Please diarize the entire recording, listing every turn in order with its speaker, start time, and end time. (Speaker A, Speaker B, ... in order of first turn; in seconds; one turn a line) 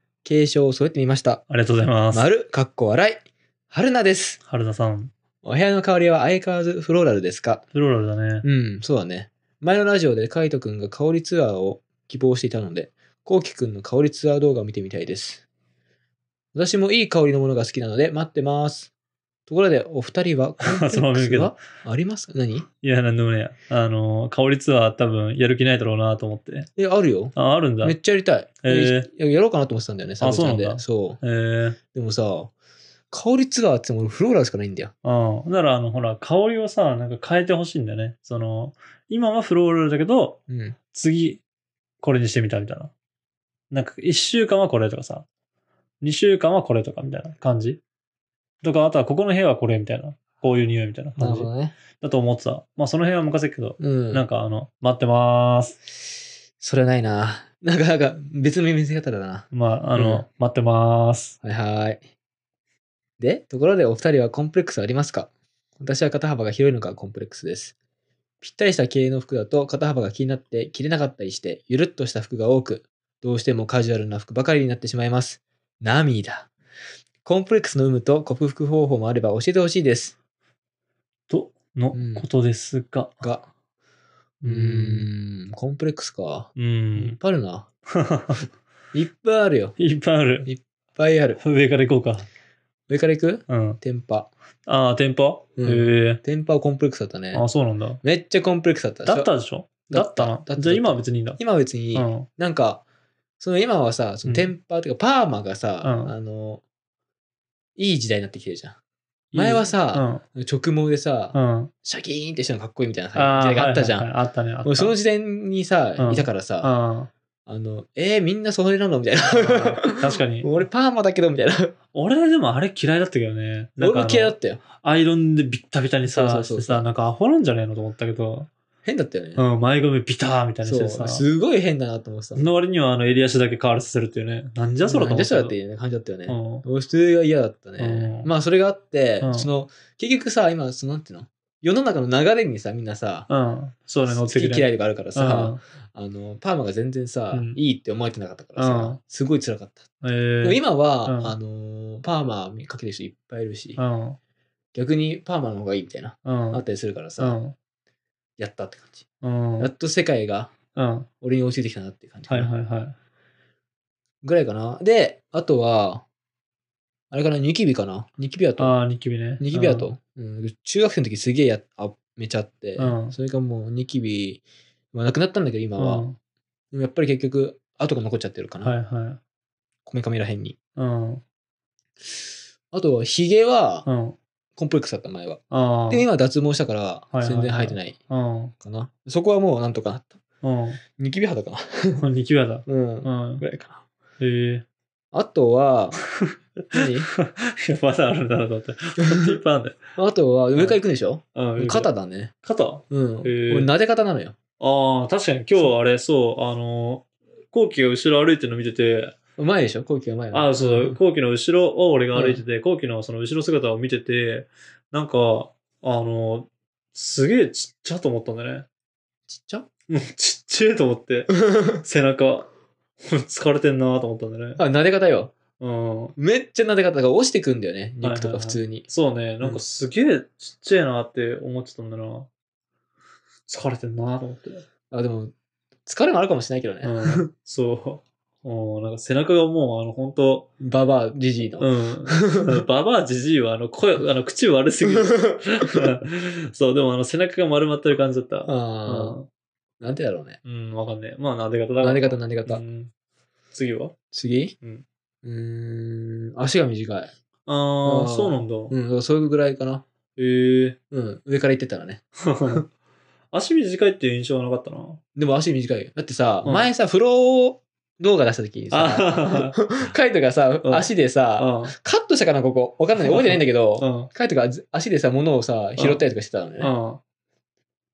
Speaker A: 0.2-1.4
Speaker B: 1.5-2.3
Speaker A: 2.1-4.4
Speaker B: 4.5-5.1
Speaker A: 5.4-7.7
Speaker B: 7.7-8.4
Speaker A: 8.4-15.4
Speaker A: 16.5-18.9
Speaker A: 19.5-22.7
Speaker B: 20.6-21.6
Speaker B: 22.8-26.7
Speaker A: 26.8-31.2
Speaker B: 27.4-28.0
Speaker B: 28.6-29.1
Speaker B: 30.2-31.8
Speaker A: 31.9-32.5
Speaker A: 33.1-34.9
Speaker B: 35.0-40.4
Speaker A: 40.5-40.8
Speaker B: 40.9-41.4
Speaker B: 42.0-42.9
Speaker B: 43.7-45.3
Speaker B: 46.0-47.8
Speaker B: 48.6-55.8
Speaker A: 51.2-51.8
Speaker A: 53.8-54.2
Speaker A: 56.6-60.2
Speaker B: 59.5-61.4
Speaker A: 61.4-62.0
Speaker A: 63.2-67.7
Speaker A: 68.4-76.5
Speaker A: 77.2-80.2
Speaker B: 81.3-83.2
Speaker A: 81.9-82.2
Speaker A: 83.2-83.5
Speaker B: 84.4-85.1
Speaker A: 84.5-87.7
Speaker B: 86.6-87.2
Speaker B: 87.9-88.5
Speaker A: 88.9-89.8
Speaker B: 89.8-90.5
Speaker A: 90.5-91.4
Speaker B: 91.4-92.3
Speaker A: 92.9-94.3
Speaker B: 93.5-93.8
Speaker B: 94.7-96.2
Speaker A: 95.6-97.5
Speaker B: 97.3-98.0
Speaker A: 98.0-99.3
Speaker B: 99.0-101.4
Speaker A: 99.9-102.8
Speaker B: 101.9-102.3
Speaker A: 103.4-106.6
Speaker B: 104.2-104.5
Speaker B: 105.8-106.1
Speaker A: 107.8-108.8
Speaker B: 109.3-110.2
Speaker A: 109.3-114.1
Speaker B: 111.3-111.7
Speaker B: 113.2-115.0
Speaker A: 114.7-116.7
Speaker B: 116.0-117.1
Speaker A: 117.5-121.7
Speaker B: 119.3-120.6
Speaker B: 121.9-128.5
Speaker A: 123.8-124.6
Speaker A: 126.1-126.8
Speaker A: 128.8-129.4
Speaker B: 129.4-131.2
Speaker A: 130.6-132.4
Speaker B: 132.3-135.6
Speaker A: 134.8-143.3
Speaker B: 136.3-136.6
Speaker B: 137.8-138.3
Speaker B: 139.2-139.5
Speaker B: 143.3-145.6
Speaker A: 144.1-149.9
Speaker B: 147.3-147.6
Speaker B: 148.6-149.0
Speaker B: 150.0-151.3
Speaker A: 150.4-153.8
Speaker B: 153.8-154.2
Speaker A: 154.7-157.4
Speaker B: 156.2-156.6
Speaker B: 157.2-157.6
Speaker A: 158.4-159.1
Speaker B: 159.2-159.7
Speaker A: 159.6-160.5
Speaker B: 160.8-161.1
Speaker A: 161.2-162.5
Speaker B: 162.3-162.9
Speaker A: 164.2-166.1
Speaker A: 167.1-168.8
Speaker B: 168.6-169.9
Speaker A: 169.4-174.4
Speaker B: 172.8-173.2
Speaker A: 174.9-176.1
Speaker B: 175.8-176.2
Speaker A: 176.7-178.8
Speaker B: 178.6-179.2
Speaker A: 179.9-180.6
Speaker B: 180.8-181.2
Speaker A: 182.7-183.9
Speaker B: 183.8-184.2
Speaker A: 184.6-188.0
Speaker B: 185.5-186.1
Speaker B: 187.1-188.5
Speaker A: 188.6-190.2
Speaker B: 190.4-190.8
Speaker A: 191.0-192.0
Speaker B: 192.0-193.4
Speaker A: 192.7-193.8
Speaker B: 194.2-194.7
Speaker A: 195.1-196.0
Speaker B: 196.2-199.8
Speaker A: 196.7-197.1
Speaker A: 199.0-199.4
Speaker A: 200.0-202.3
Speaker B: 200.6-200.8
Speaker B: 201.3-201.9
Speaker B: 202.4-203.7
Speaker A: 202.9-204.4
Speaker B: 204.6-209.2
Speaker A: 209.4-211.0
Speaker B: 210.3-218.7
Speaker A: 212.1-212.4
Speaker A: 219.3-219.7
Speaker B: 219.9-222.5
Speaker A: 221.4-221.8
Speaker B: 223.0-224.6
Speaker A: 224.6-225.3
Speaker B: 225.6-226.2
Speaker A: 226.2-228.9
Speaker B: 228.0-232.3
Speaker B: 233.5-234.7
Speaker A: 234.9-235.3
Speaker A: 235.9-237.2
Speaker B: 236.8-240.5
Speaker A: 240.6-242.6
Speaker B: 241.6-249.3
Speaker A: 244.9-245.4
Speaker A: 248.5-249.2
Speaker A: 249.8-250.4
Speaker B: 250.4-252.9
Speaker A: 251.8-252.6
Speaker B: 253.5-253.9
Speaker A: 254.1-254.6
Speaker A: 255.2-257.1
Speaker B: 257.5-258.7
Speaker A: 257.8-259.9
Speaker B: 260.2-260.8
Speaker A: 260.9-262.6
Speaker B: 262.2-262.7
Speaker B: 263.3-265.0
Speaker A: 265.2-276.7
Speaker B: 266.4-266.7
Speaker B: 268.7-269.6
Speaker B: 270.6-271.8
Speaker B: 273.0-274.1
Speaker B: 275.8-276.0
Speaker B: 276.6-277.0